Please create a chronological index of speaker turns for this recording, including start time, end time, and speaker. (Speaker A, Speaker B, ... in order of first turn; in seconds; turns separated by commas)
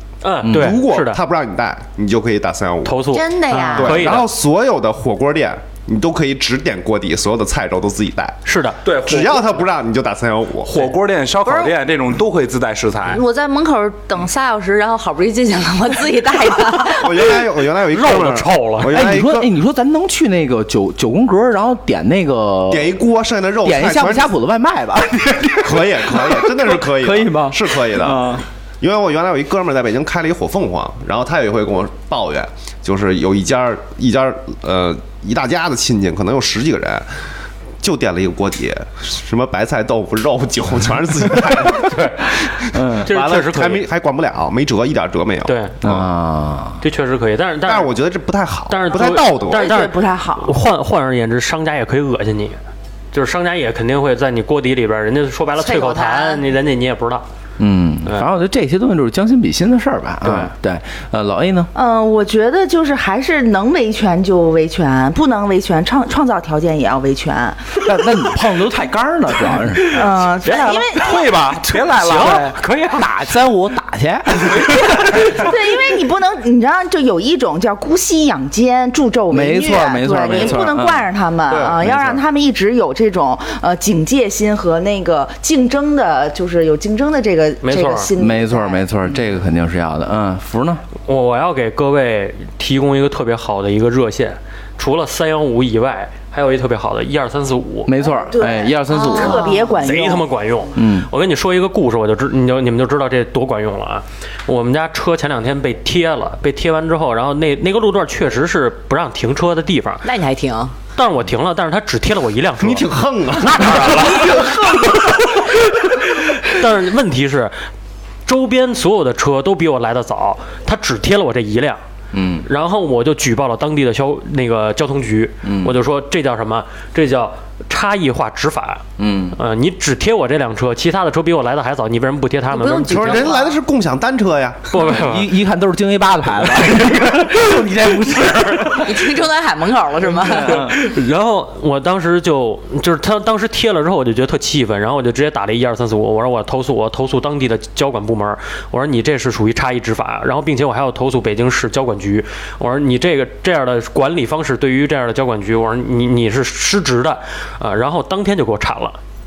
Speaker A: 0.2-1.2, Speaker B: 0.4-0.8, Speaker C: 0.4-3.2, Speaker A: 2.9-4.3, Speaker D: 3.1-4.1, Speaker C: 3.7-8.4, Speaker A: 8.5-8.8, Speaker E: 8.8-9.7, Speaker C: 9.0-10.9, Speaker E: 10.6-13.2, Speaker D: 11.4-11.7, Speaker D: 13.1-17.4, Speaker C: 16.9-19.5, Speaker A: 17.9-19.0, Speaker B: 18.9-23.0, Speaker C: 22.7-24.3, Speaker B: 23.6-28.4, Speaker C: 25.6-37.1, Speaker C: 37.8-45.6, Speaker B: 41.3-41.9, Speaker B: 42.7-43.1, Speaker A: 43.0-43.9, Speaker A: 45.5-46.0, Speaker B: 45.8-46.8, Speaker A: 46.8-47.9, Speaker C: 47.6-49.7, Speaker A: 48.7-52.6, Speaker F: 49.5-50.6, Speaker A: 53.1-57.3, Speaker D: 55.6-56.4, Speaker B: 57.6-61.7, Speaker A: 60.2-60.5, Speaker F: 61.8-67.7, Speaker B: 67.8-70.3, Speaker F: 69.9-71.2, Speaker A: 70.4-71.1, Speaker E: 70.5-72.5, Speaker A: 71.9-73.2, Speaker B: 72.1-75.5, Speaker F: 74.6-88.9, Speaker B: 79.3-81.1, Speaker A: 80.3-80.6, Speaker A: 81.5-81.8, Speaker B: 81.8-82.2, Speaker A: 87.6-88.1, Speaker B: 88.2-90.8, Speaker A: 91.1-97.9, Speaker B: 97.9-99.5, Speaker F: 98.0-100.3, Speaker D: 98.9-99.7, Speaker A: 99.4-110.0, Speaker B: 100.7-101.1, Speaker D: 110.0-110.8, Speaker A: 111.0-117.6, Speaker C: 112.6-114.7, Speaker A: 118.3-121.8, Speaker B: 122.1-122.5, Speaker A: 122.5-128.8, Speaker B: 125.4-125.8, Speaker B: 129.0-129.4, Speaker A: 129.3-133.4, Speaker D: 132.5-133.6, Speaker C: 132.9-134.8, Speaker A: 134.7-135.3, Speaker B: 134.8-139.2, Speaker A: 138.3-138.8, Speaker D: 138.8-140.6, Speaker B: 140.0-140.8, Speaker A: 140.4-159.0